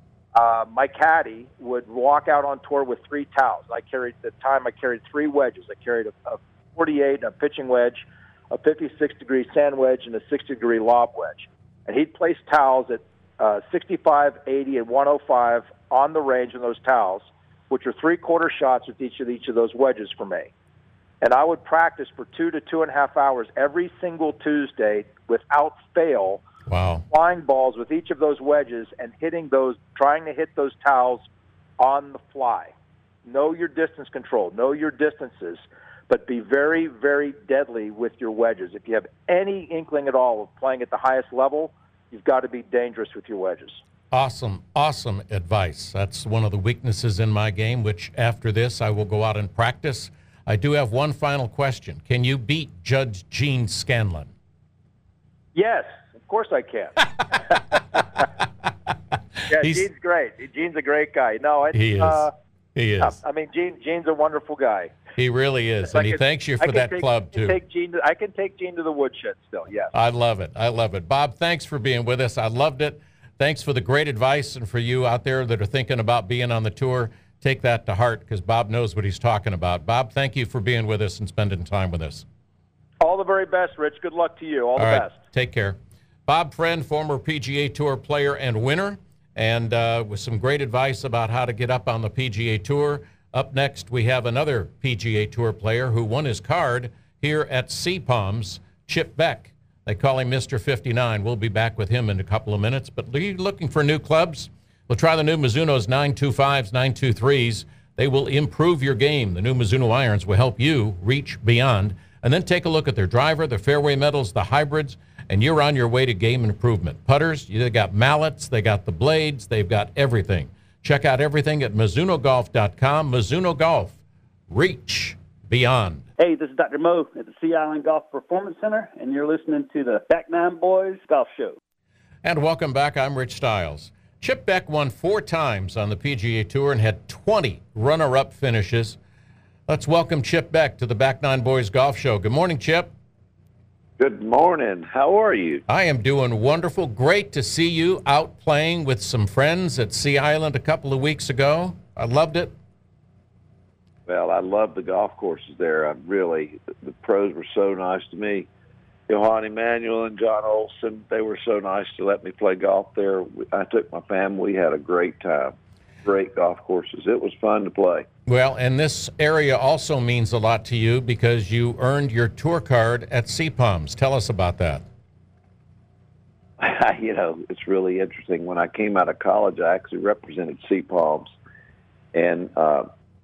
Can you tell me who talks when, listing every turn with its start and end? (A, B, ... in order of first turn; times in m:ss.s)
0:00.3-0:20.5 A
0:21.2-0:26.4 A
0:26.7-0:27.0 B
0:27.1-0:31.2 A
0:31.8-0:32.7 A
0:33.2-0:43.8 A
0:44.1-0:54.3 B
0:55.5-0:57.4 A
0:59.5-0:59.8 B
0:59.5-1:02.3 A
1:01.7-1:03.2 B
1:03.0-1:05.0 A
1:05.2-1:07.6 B
1:05.9-1:09.9 A
1:09.9-1:22.2 B
1:23.0-1:25.2 A
1:24.8-2:04.0 B
2:04.5-2:06.0 B
2:06.2-2:11.6 C
2:12.2-2:19.0 B
2:19.7-2:22.9 B
2:24.0-2:25.6 D
2:25.7-2:32.5 B
2:34.1-2:38.5 D
2:39.1-2:48.1 D
2:48.3-2:54.8 B
2:56.6-3:01.3 D
3:02.1-3:02.9 D